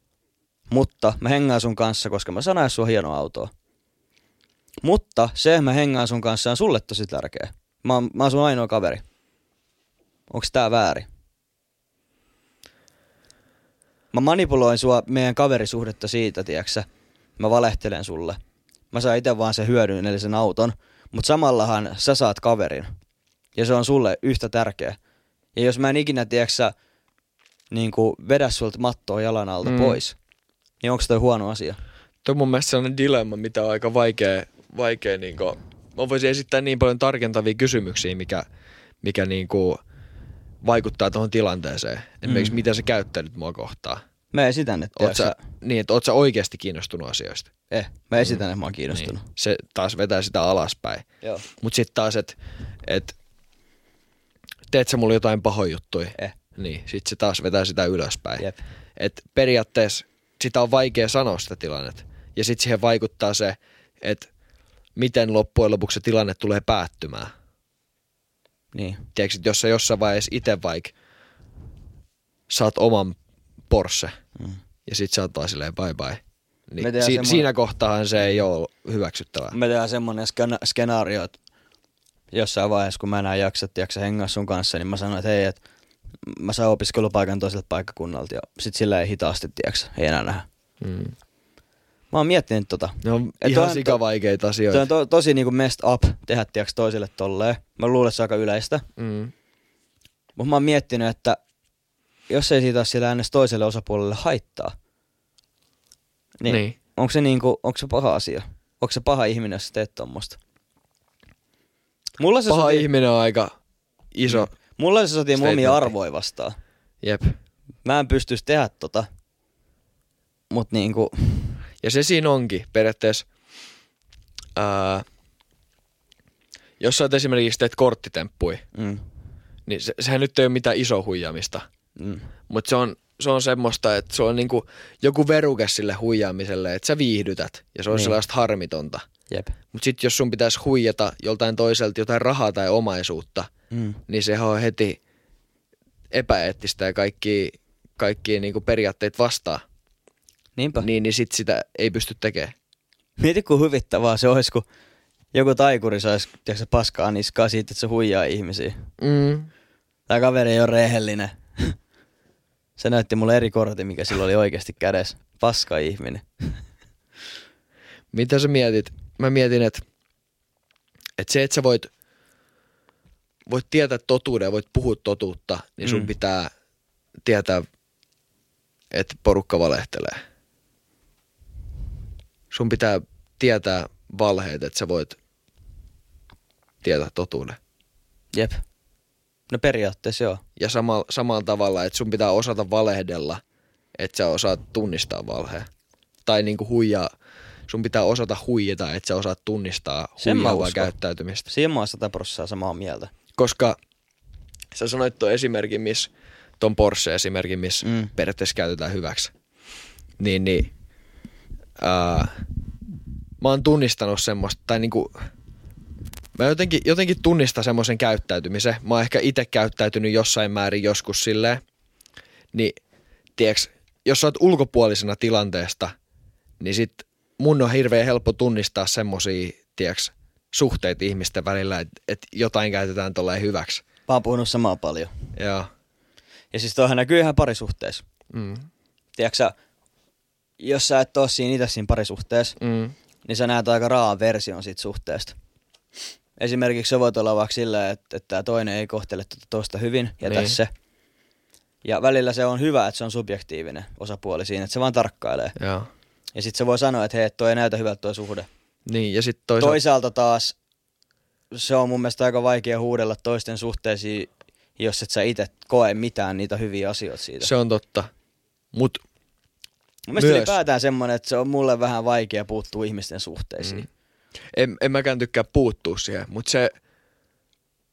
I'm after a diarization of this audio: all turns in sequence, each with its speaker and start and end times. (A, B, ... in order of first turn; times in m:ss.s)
0:00.7-0:03.5 A
0:04.8-0:09.0 A
0:10.3-0:11.1 A
0:14.1-0:16.8 A
0:17.4-0:18.4 A
0:18.9-0:22.9 A
0:23.6-0:25.0 A
0:25.6-0:26.7 A
0:27.7-0:30.2 A
0:29.6-0:30.0 B
0:30.8-0:31.8 A
0:32.2-0:38.4 B
0:39.0-0:39.8 B
0:40.6-0:44.0 B
0:42.2-0:42.6 A
0:44.3-0:45.4 A
0:45.0-0:47.5 B
0:47.7-0:49.2 A
0:48.9-0:51.0 B
0:51.6-0:53.1 B
0:54.7-0:58.4 B
0:59.0-1:04.3 B
1:05.0-1:07.3 B
1:08.7-1:09.0 A
1:09.1-1:10.9 B
1:12.5-1:13.2 B
1:13.7-1:14.1 B
1:14.9-1:19.6 B
1:16.8-1:17.5 A
1:19.5-1:21.3 A
1:22.3-1:25.6 A
1:26.2-1:30.4 A
1:30.8-1:31.1 B
1:32.1-1:34.0 A
1:33.0-1:34.9 B
1:34.7-1:38.8 A
1:39.0-1:39.3 B
1:40.4-1:41.4 A
1:42.3-1:44.7 A
1:46.4-1:50.4 A
1:46.4-1:46.8 B
1:52.2-1:52.9 A
1:52.5-1:53.5 B
1:54.1-1:54.5 B
1:54.3-1:56.6 A
1:55.4-1:55.9 B
1:57.0-1:57.3 B
1:57.8-1:59.1 A
2:00.5-2:01.6 A
2:01.8-2:03.2 B
2:04.6-2:05.0 B
2:06.8-2:08.6 B
2:08.7-2:09.0 A
2:09.7-2:11.6 B
2:12.0-2:12.3 A
2:12.5-2:19.0 B
2:17.9-2:18.2 A
2:19.3-2:19.5 A
2:19.7-2:23.5 B
2:23.7-2:24.0 A
2:24.1-2:25.0 B
2:26.1-2:29.6 B
2:30.6-2:30.9 A
2:30.8-2:32.5 B
2:33.2-2:34.6 A
2:35.3-2:38.8 A
2:39.0-2:39.5 B
2:40.1-2:41.8 A
2:42.8-2:46.6 A
2:48.1-2:49.8 B
2:51.2-2:51.9 B
2:53.5-2:56.5 B
2:55.8-2:56.1 A
2:57.2-2:57.6 B
2:58.9-3:00.2 B
3:02.5-3:05.2 B
3:06.8-3:07.6 B
3:08.3-3:08.6 A
3:09.5-3:10.4 A
3:10.6-3:13.4 B
3:14.0-3:15.7 B
3:16.2-3:17.1 B
3:17.7-3:21.5 B
3:20.2-3:20.9 A
3:21.5-3:23.1 A
3:23.3-3:23.8 B
3:24.7-3:29.3 B
3:27.8-3:28.1 A
3:30.2-3:30.7 B
3:31.8-3:32.4 B
3:33.4-3:35.3 B
3:36.4-3:41.6 B
3:43.4-3:45.9 B
3:46.6-3:53.8 B
3:54.1-3:55.1 A
3:55.4-3:55.7 B
3:56.5-3:58.0 A
3:58.3-3:58.7 B
3:59.2-3:59.5 A
4:00.6-4:02.6 A
4:02.6-4:02.9 B
4:03.2-4:05.3 A
4:06.4-4:10.7 A
4:10.2-4:10.6 B
4:11.8-4:15.6 A
4:15.6-4:15.9 B
4:16.3-4:18.5 A
4:18.8-4:19.8 B
4:19.6-4:20.6 A
4:21.5-4:27.5 A
4:27.4-4:28.1 B
4:28.7-4:29.0 B
4:30.1-4:33.9 A
4:30.2-4:30.6 B
4:34.5-4:36.7 B